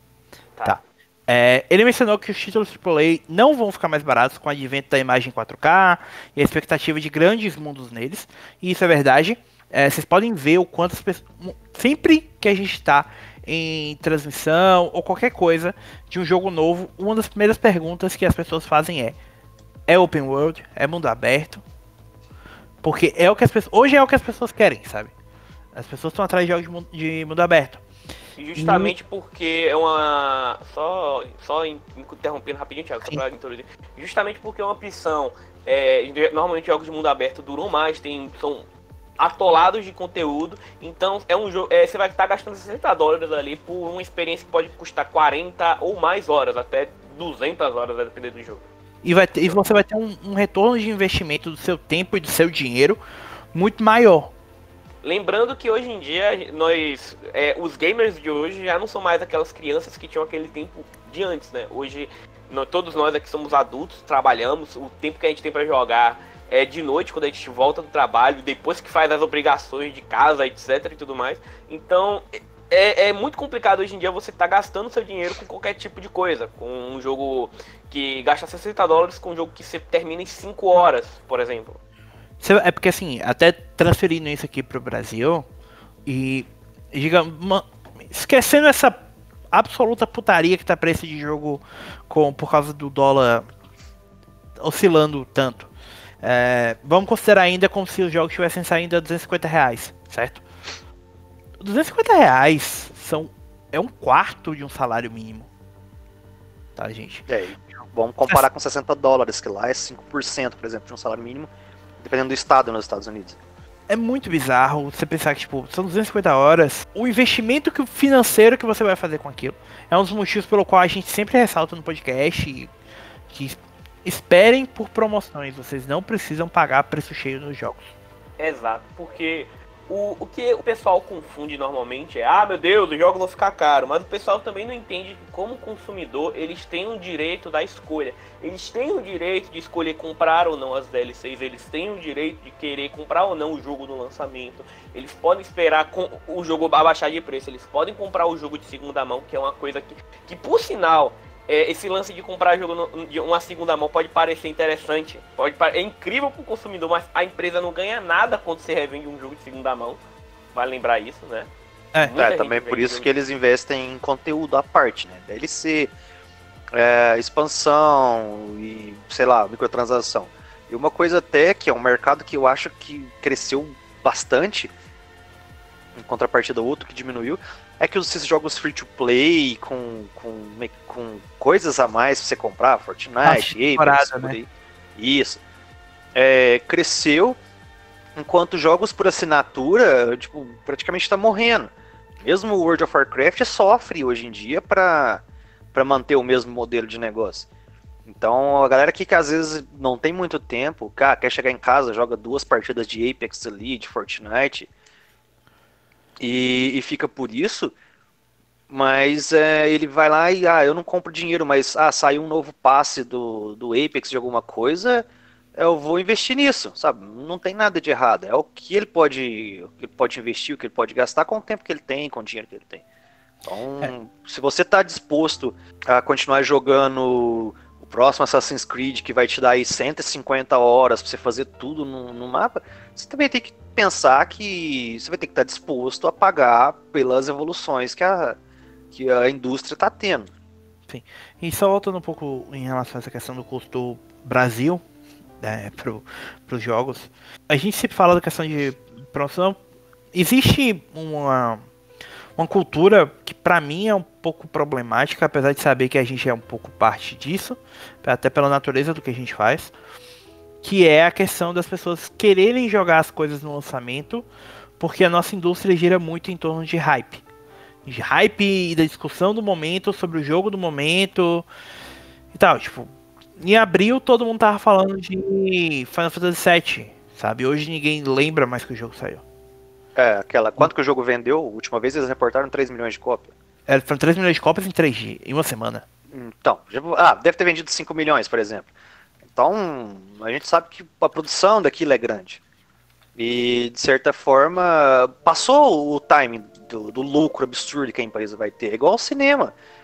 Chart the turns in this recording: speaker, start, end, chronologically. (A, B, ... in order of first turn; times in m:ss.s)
0:00.6-0:19.2 A
0:19.9-0:21.6 A
0:22.8-0:25.1 A
0:25.7-0:27.8 A
0:28.4-0:38.7 B
0:28.6-0:28.9 A
0:39.2-0:48.6 B
0:49.0-0:53.0 A
0:53.5-0:54.3 A
0:55.0-1:21.8 B
1:22.4-1:25.4 A
1:26.0-1:29.0 A
1:29.5-1:33.4 A
1:34.6-1:35.7 A
1:36.2-1:40.4 A
1:41.6-1:45.5 A
1:46.8-1:47.2 A
1:47.3-1:53.4 C
1:53.9-2:02.7 A
2:03.3-2:07.9 A
2:08.4-2:40.0 B
2:40.5-2:41.5 B
2:42.1-2:43.1 B
2:42.1-2:45.9 C
2:46.7-2:54.7 C
2:55.9-3:05.4 C
3:03.2-3:04.4 A
3:06.1-3:07.4 C
3:08.2-3:15.2 C
3:15.7-3:17.5 C
3:18.0-3:24.7 C
3:26.2-3:27.7 C
3:28.7-3:42.8 C
3:43.4-3:58.4 C
3:58.9-4:00.3 C
4:00.9-4:04.8 A
4:05.4-4:09.6 A
4:10.1-4:11.6 A
4:12.4-4:19.7 A
4:20.6-4:24.2 A
4:24.8-4:27.2 A
4:27.8-4:31.4 A
4:32.3-4:39.2 A
4:39.9-4:43.3 C
4:43.7-4:45.8 A
4:46.1-4:48.7 C
4:49.3-4:52.4 C
4:53.2-4:59.5 C